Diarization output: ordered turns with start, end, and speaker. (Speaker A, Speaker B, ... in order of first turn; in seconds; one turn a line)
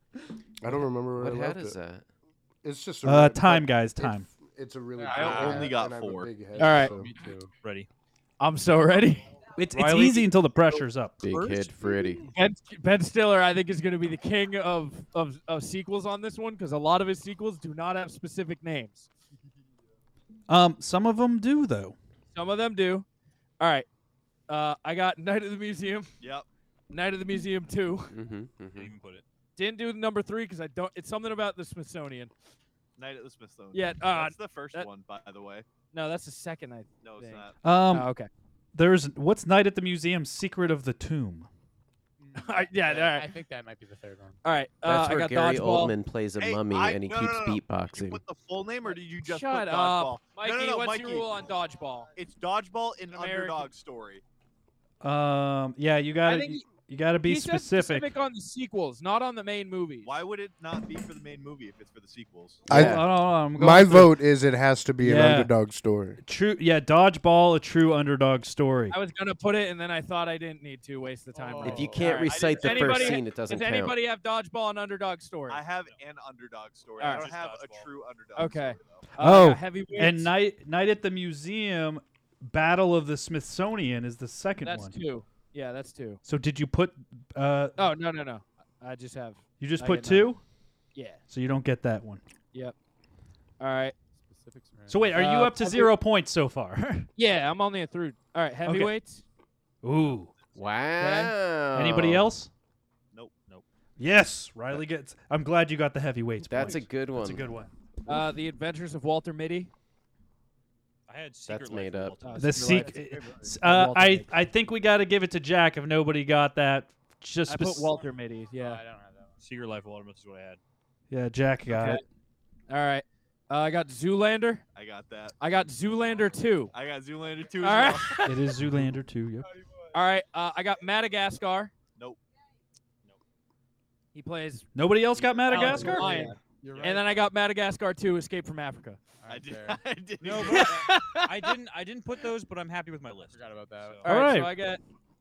Speaker A: 0.6-1.8
Speaker B: 1.2-2.1
Speaker A: 2.6-7.5
Speaker C: 3.0-4.3
Speaker D: 5.0-5.8
Speaker E: 5.1-6.3
Speaker F: 6.5-7.0
Speaker D: 6.6-7.5
Speaker G: 7.6-7.9
Speaker F: 8.4-9.4
Speaker C: 9.6-11.2
Speaker G: 9.7-10.3
Speaker B: 11.2-12.2
Speaker G: 11.3-11.7
Speaker A: 11.8-12.2
Speaker F: 12.3-19.1
Speaker C: 20.5-22.0
Speaker F: 22.3-23.1
Speaker F: 23.6-23.9
Speaker F: 24.5-26.1
Speaker E: 26.2-26.5
Speaker F: 26.9-28.1
Speaker B: 28.1-28.9
Speaker G: 28.7-29.2
Speaker F: 29.6-32.3
Speaker E: 33.0-35.6
Speaker F: 33.7-34.9
Speaker F: 35.9-38.3
Speaker E: 37.0-37.6
Speaker C: 37.6-38.1
Speaker C: 38.7-41.5
Speaker D: 42.2-44.4
Speaker F: 42.4-43.4
Speaker F: 44.4-46.0
Speaker B: 44.8-48.2
Speaker E: 46.4-51.5
Speaker F: 49.2-52.1
Speaker E: 52.1-54.2
Speaker F: 53.1-53.7
Speaker C: 55.0-58.1
Speaker F: 56.2-56.7
Speaker F: 57.2-60.1
Speaker E: 60.0-62.7
Speaker B: 62.7-63.1
Speaker A: 62.7-66.2
Speaker C: 62.7-64.2
Speaker C: 65.0-65.5
Speaker C: 66.2-69.0
Speaker F: 68.9-75.6
Speaker D: 71.3-72.3
Speaker B: 71.6-74.0
Speaker E: 72.0-73.2
Speaker E: 75.5-79.0
Speaker F: 77.0-77.3
Speaker G: 77.0-77.9
Speaker F: 78.4-80.4
Speaker C: 79.2-85.0
Speaker F: 84.6-86.2
Speaker C: 86.2-87.8
Speaker F: 87.8-90.4
Speaker C: 89.6-90.4
Speaker F: 91.0-91.2
Speaker C: 91.3-92.2
Speaker F: 93.6-94.0
Speaker D: 94.2-95.1
Speaker C: 94.9-97.1
Speaker F: 95.1-96.0
Speaker F: 97.2-99.2
Speaker C: 98.7-98.9
Speaker C: 99.8-100.3
Speaker B: 100.5-102.3
Speaker F: 101.0-101.3
Speaker C: 101.7-102.5
Speaker C: 104.0-107.7
Speaker B: 106.5-107.5
Speaker F: 108.1-109.7
Speaker G: 111.1-112.7
Speaker B: 111.5-112.2
Speaker F: 112.2-114.3
Speaker C: 112.4-117.9
Speaker D: 112.8-113.5
Speaker F: 117.5-118.8
Speaker D: 118.5-119.4
Speaker G: 119.4-120.6
Speaker C: 121.1-122.0
Speaker F: 121.7-122.0
Speaker F: 122.7-124.6
Speaker E: 124.8-125.4
Speaker F: 125.4-126.7
Speaker E: 126.7-128.2
Speaker F: 127.6-128.7
Speaker C: 128.2-129.5
Speaker F: 129.9-131.7
Speaker F: 134.1-134.7
Speaker C: 134.8-136.2
Speaker F: 135.5-139.0
Speaker D: 135.5-137.2
Speaker D: 139.2-139.8
Speaker E: 139.3-140.9
Speaker G: 140.2-144.0
Speaker F: 140.4-141.5
Speaker D: 143.3-144.1
Speaker F: 144.1-144.8
Speaker C: 144.1-144.5